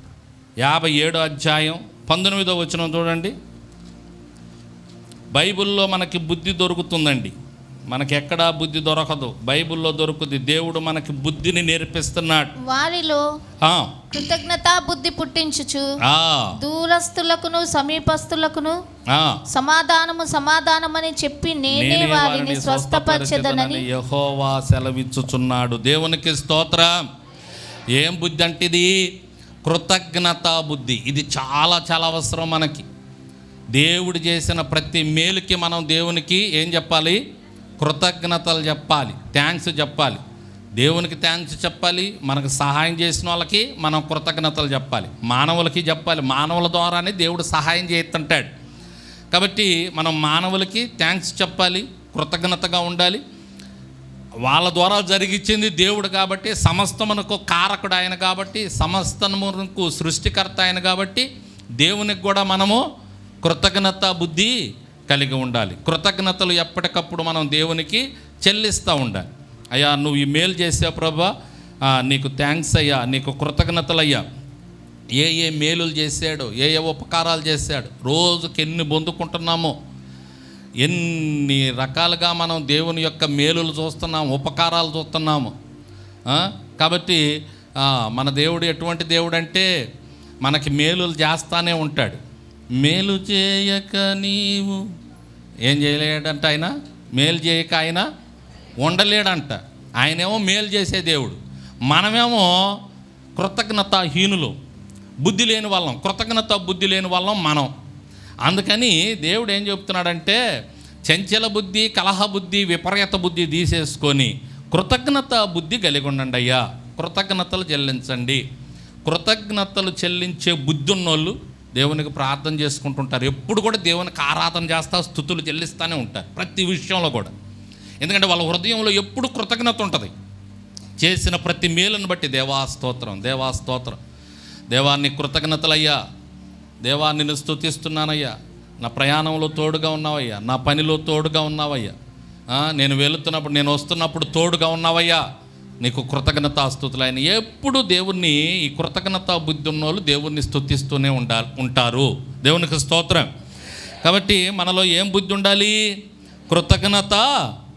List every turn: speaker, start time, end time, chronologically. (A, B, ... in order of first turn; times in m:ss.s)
0:00.6-0:03.3 A
0:05.3-0:07.3 A
0:07.9-0:12.5 A
0:12.6-0:13.2 B
0:13.6-0:14.0 A
0:14.1-0:15.8 B
0:16.0-0:16.6 A
0:16.6-0:18.8 B
0:19.1-0:19.4 A
0:19.5-0:23.8 B
0:21.7-0:27.0 A
0:27.9-0:28.9 A
0:29.6-0:32.8 A
0:33.7-0:37.2 A
0:37.8-0:40.2 A
0:40.8-0:48.5 A
0:49.3-0:53.2 A
0:54.4-1:01.3 A
1:01.8-1:02.8 A
1:03.4-1:04.5 A
1:05.1-1:11.3 A
1:11.9-1:14.2 A
1:15.2-1:19.7 A
1:20.8-1:25.5 A
1:26.3-1:27.2 A
1:27.8-1:29.7 A
1:30.4-1:32.2 A
1:32.8-1:34.8 A
1:35.6-1:38.0 A
1:38.8-1:41.4 A
1:41.9-1:42.5 A
1:43.4-1:44.5 A
1:45.2-1:47.7 A
1:48.4-1:50.4 A
1:51.1-1:58.4 A
1:59.0-2:07.3 A
2:08.0-2:10.1 A
2:11.0-2:14.0 A
2:14.7-2:16.0 A
2:16.8-2:21.9 A
2:22.5-2:25.2 A
2:25.8-2:33.3 A
2:34.0-2:35.8 A
2:36.5-2:37.3 A